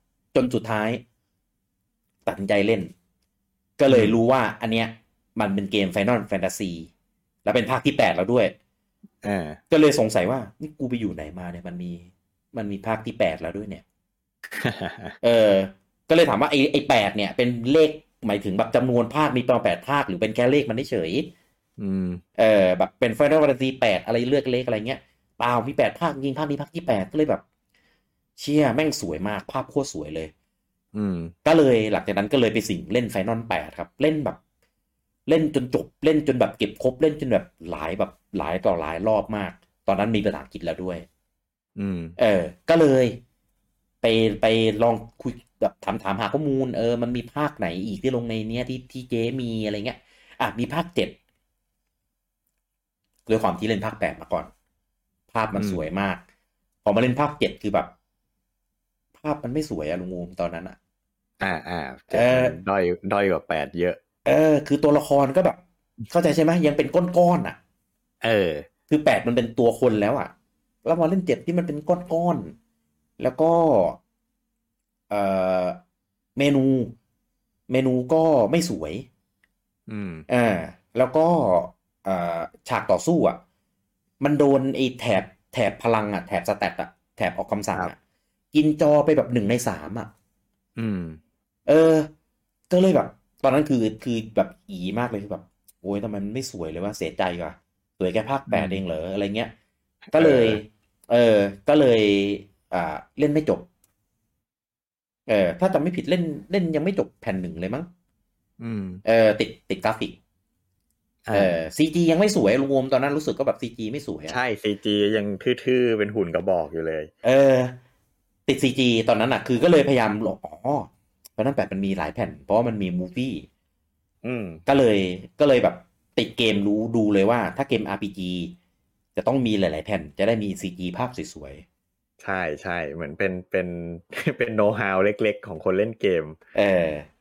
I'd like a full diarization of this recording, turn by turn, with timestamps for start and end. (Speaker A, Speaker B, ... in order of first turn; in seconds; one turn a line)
Speaker A: 0.3-1.0
Speaker A: 2.2-2.9
Speaker A: 3.8-6.9
Speaker B: 3.9-4.2
Speaker A: 7.4-8.5
Speaker B: 9.2-9.6
Speaker A: 9.7-13.8
Speaker B: 14.6-15.2
Speaker A: 15.2-21.3
Speaker B: 21.8-22.2
Speaker A: 22.4-27.4
Speaker A: 28.4-30.3
Speaker B: 30.9-31.3
Speaker A: 31.4-34.4
Speaker A: 35.3-41.0
Speaker B: 41.8-42.1
Speaker A: 42.2-43.2
Speaker A: 44.0-51.1
Speaker A: 53.3-54.5
Speaker A: 55.3-56.2
Speaker A: 56.8-57.9
Speaker A: 59.2-60.8
Speaker B: 61.4-64.0
Speaker A: 62.1-62.5
Speaker A: 64.2-67.6
Speaker B: 68.2-68.7
Speaker A: 68.9-70.3
Speaker A: 70.8-72.5
Speaker A: 73.2-74.0
Speaker A: 75.1-75.8
Speaker A: 76.3-76.9
Speaker A: 77.7-79.0
Speaker B: 79.9-80.2
Speaker A: 80.3-83.4
Speaker A: 84.2-87.9
Speaker A: 88.5-90.1
Speaker B: 90.8-91.2
Speaker A: 91.7-92.1
Speaker A: 92.7-99.5
Speaker B: 98.5-98.8
Speaker A: 100.1-103.7
Speaker B: 100.2-100.6
Speaker A: 105.3-107.9
Speaker B: 108.6-109.0
Speaker A: 109.0-110.2
Speaker B: 111.3-111.5
Speaker A: 111.3-114.4
Speaker B: 114.3-117.1
Speaker A: 117.2-117.8
Speaker A: 118.5-123.5
Speaker B: 124.2-124.6
Speaker A: 124.7-128.5
Speaker A: 129.2-131.6
Speaker B: 132.2-136.4
Speaker A: 136.5-137.1